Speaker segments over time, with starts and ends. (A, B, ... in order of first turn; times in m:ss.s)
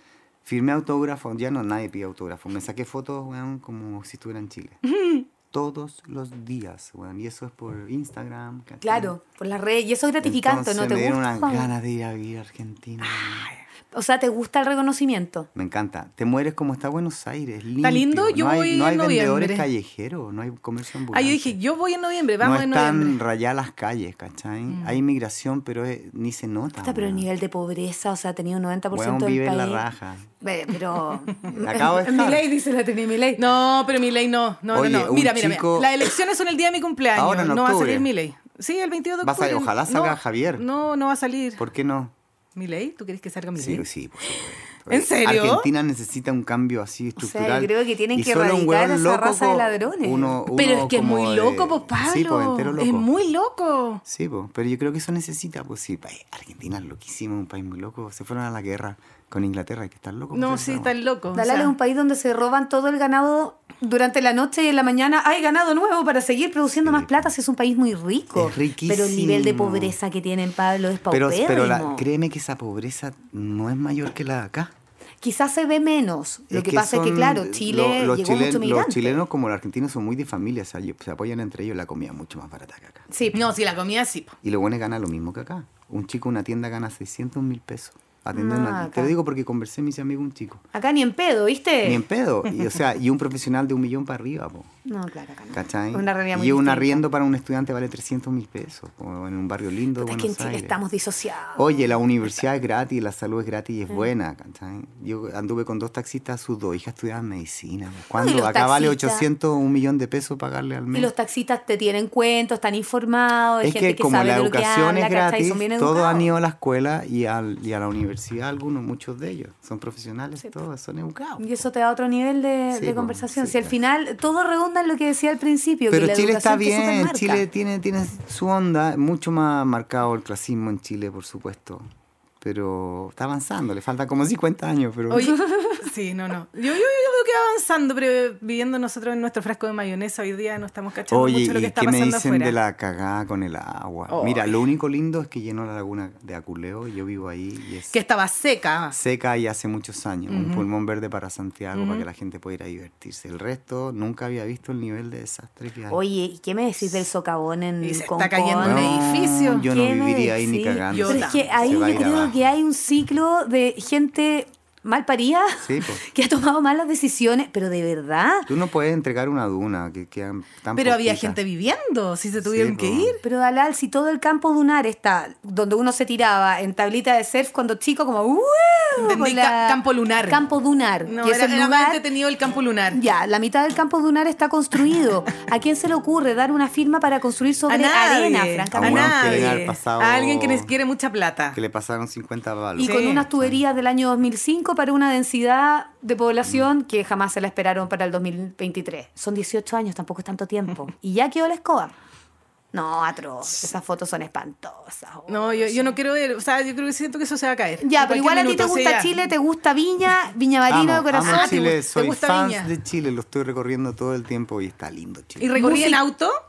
0:00.4-0:04.8 A
0:04.8-0:05.2 B
0:05.5-0:09.1 A
0:08.8-0:11.7 C
0:10.2-0:13.5 A
0:13.9-0:15.5 C
0:15.5-0:21.6 A
0:17.8-0:19.7 B
0:21.1-0:23.2 B
0:22.4-0:27.2 A
0:24.7-0:25.0 B
0:26.8-0:29.8 C
0:28.9-0:30.3 A
0:30.4-0:33.4 C
0:31.5-0:32.4 A
0:33.4-0:41.6 B
0:34.7-0:35.9 A
0:37.1-0:38.1 A
0:39.2-0:40.6 A
0:41.6-0:42.1 A
0:42.6-0:43.8 B
0:43.6-0:53.1 A
0:44.9-0:45.7 B
0:47.2-0:50.4 C
0:50.5-0:54.0 B
0:54.0-1:00.9 A
1:00.3-1:01.7 B
1:01.3-1:12.1 C
1:06.8-1:07.3 A
1:08.3-1:10.0 A
1:11.1-1:14.7 A
1:15.2-1:19.2 C
1:16.5-1:23.0 A
1:23.1-1:23.4 C
1:23.3-1:24.4 B
1:24.4-1:30.6 A
1:28.3-1:29.1 C
1:30.7-1:32.0 C
1:31.8-1:34.7 A
1:34.8-1:37.0 C
1:35.5-1:40.8 A
1:40.0-1:41.8 C
1:41.6-1:51.1 A
1:48.2-1:49.2 C
1:50.9-1:56.3 C
1:53.6-2:01.4 A
2:01.4-2:07.4 C
2:02.7-2:03.7 A
2:05.9-2:11.9 A
2:12.4-2:15.4 A
2:15.1-2:22.6 B
2:15.4-2:15.8 C
2:21.1-2:27.9 A
2:24.1-2:24.5 B
2:27.9-2:29.0 B
2:28.9-2:36.0 A
2:30.3-2:30.6 B
2:31.7-2:32.0 B
2:35.9-2:39.0 C
2:37.8-2:39.6 B
2:38.6-2:42.4 A
2:39.7-2:48.5 C
2:40.9-2:41.7 B
2:45.6-2:46.0 A
2:48.5-2:51.4 A
2:50.7-2:53.2 B
2:52.4-2:53.2 A
2:53.2-3:02.0 C
2:59.0-3:00.4 B
3:01.0-3:03.0 B
3:02.9-3:09.6 C
3:07.7-3:11.6 B
3:08.7-3:10.7 A
3:11.5-3:13.6 A
3:12.8-3:21.9 C
3:12.8-3:13.2 B
3:22.7-3:26.0 C
3:25.3-3:29.2 B
3:27.8-3:31.6 C
3:30.7-3:35.5 A
3:31.2-3:32.7 B
3:35.4-3:36.3 B
3:35.5-3:36.0 C